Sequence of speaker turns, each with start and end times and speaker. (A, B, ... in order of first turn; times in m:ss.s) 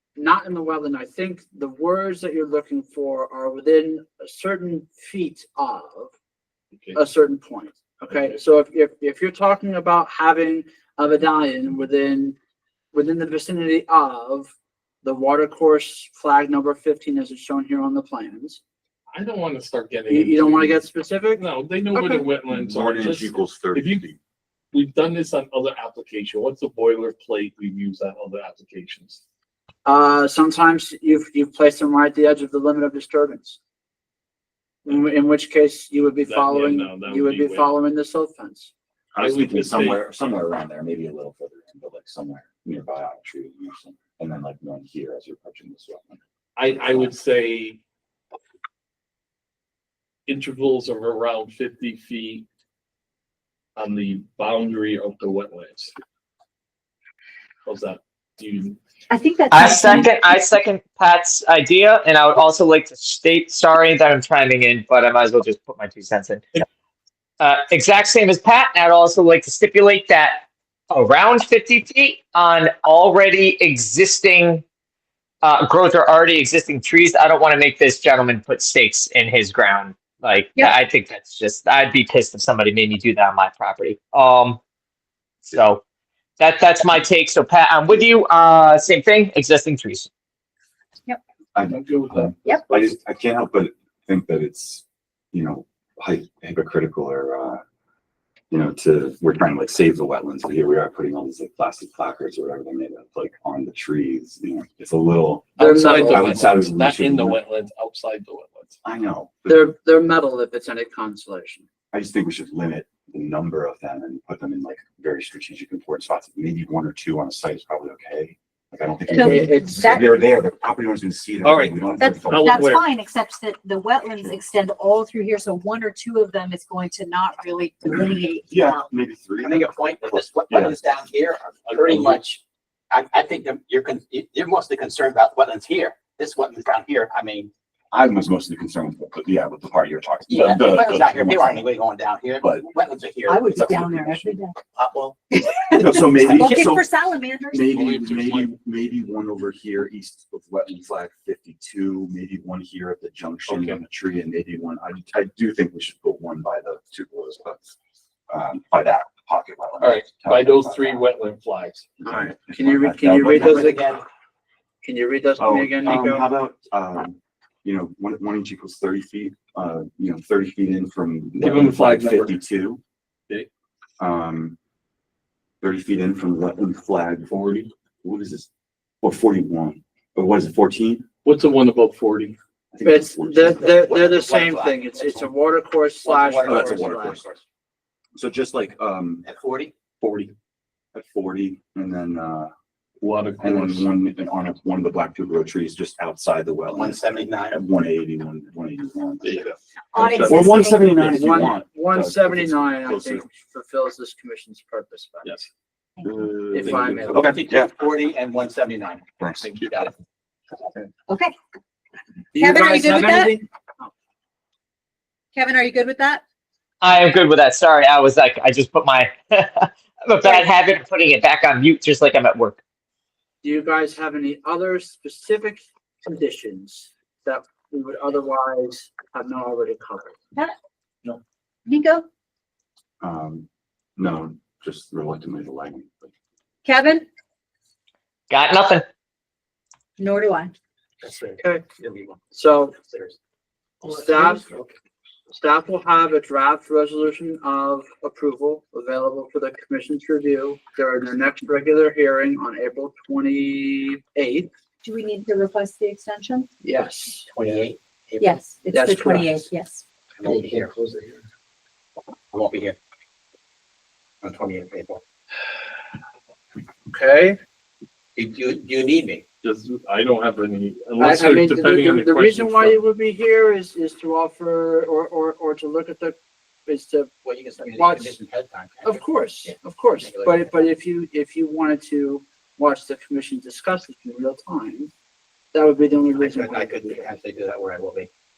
0:00.2-0:06.1 A
0:06.7-0:07.0 B
0:06.9-0:12.4 A
0:08.1-0:08.4 B
0:12.9-0:14.5 A
0:15.0-0:18.6 A
0:19.1-0:24.0 B
0:20.1-0:21.4 A
0:22.0-0:22.2 A
0:22.4-0:24.2 C
0:24.7-0:29.2 B
0:29.8-0:33.6 A
0:34.8-0:38.7 A
0:36.2-0:37.7 B
0:39.1-0:47.1 C
0:39.2-0:40.0 B
0:46.6-0:47.8 B
0:50.3-0:52.4 B
0:53.8-0:55.9 B
0:57.6-0:58.8 B
0:59.1-1:00.1 D
0:59.5-1:06.6 E
1:07.4-1:14.6 E
1:15.4-1:24.6 E
1:25.4-1:25.8 E
1:26.4-1:30.1 E
1:31.5-1:37.6 C
1:31.6-1:32.9 B
1:38.5-1:47.4 C
1:45.6-1:48.8 B
1:45.6-1:46.5 A
1:48.8-1:49.7 C
1:49.5-1:51.6 A
1:51.9-2:02.6 C
1:59.1-2:00.1 D
1:59.2-2:00.1 A
2:01.4-2:02.8 B
2:02.0-2:08.8 D
2:08.5-2:10.8 C
2:09.4-2:17.5 F
2:11.6-2:12.2 B
2:17.9-2:21.8 C
2:20.3-2:24.1 F
2:23.2-2:24.6 D
2:23.7-2:24.3 C
2:24.7-2:25.3 F
2:25.3-2:27.7 D
2:25.7-2:26.9 C
2:27.5-2:37.7 C
2:27.6-2:28.5 B
2:33.5-2:33.8 B
2:38.3-2:41.0 C
2:39.8-2:41.9 B
2:42.0-2:43.8 C
2:42.1-2:43.8 A
2:43.3-2:44.0 F
2:44.8-2:46.2 A
2:45.4-2:52.8 C
2:51.4-2:52.3 B
2:54.0-2:54.6 C
2:55.6-2:58.5 C
2:59.0-3:01.0 C
3:01.2-3:02.4 B
3:02.7-3:03.6 C
3:02.8-3:07.2 A
3:03.6-3:05.3 F
3:06.0-3:07.4 F
3:06.4-3:07.3 C
3:08.1-3:09.2 C
3:09.2-3:09.7 F
3:10.0-3:10.3 C
3:10.9-3:12.5 C
3:13.0-3:13.9 B
3:13.4-3:23.2 C
3:16.7-3:17.6 F
3:19.2-3:21.2 B
3:19.9-3:20.9 D
3:21.0-3:25.4 A
3:26.0-3:27.3 B
3:26.5-3:27.3 A
3:27.1-3:27.7 C
3:27.1-3:29.9 F
3:29.2-3:29.5 C
3:31.1-3:31.3 D
3:32.3-3:33.9 A
3:32.4-3:33.4 D
3:35.3-3:36.2 D
3:36.8-3:42.6 E
3:40.2-3:40.5 D
3:43.4-3:50.2 A
3:51.6-3:52.0 D
3:53.0-3:56.1 C
3:56.6-3:57.1 D
3:58.3-3:58.8 E
4:00.0-4:00.5 D
4:01.0-4:02.2 F
4:02.3-4:02.7 A
4:02.7-4:03.2 F
4:03.8-4:04.7 B
4:03.8-4:04.4 A
4:05.3-4:14.5 A
4:14.8-4:16.5 D
4:16.6-4:17.3 A
4:17.3-4:18.4 F
4:18.2-4:20.6 D
4:18.7-4:19.5 A
4:20.2-4:20.9 F
4:22.3-4:22.8 F
4:24.2-4:25.0 F
4:26.9-4:27.4 A
4:28.2-4:29.2 F
4:29.4-4:32.8 B
4:31.0-4:37.1 A
4:37.2-4:40.6 F
4:37.7-4:38.2 A
4:38.8-4:44.9 A
4:45.5-4:47.0 A
4:46.1-4:48.1 F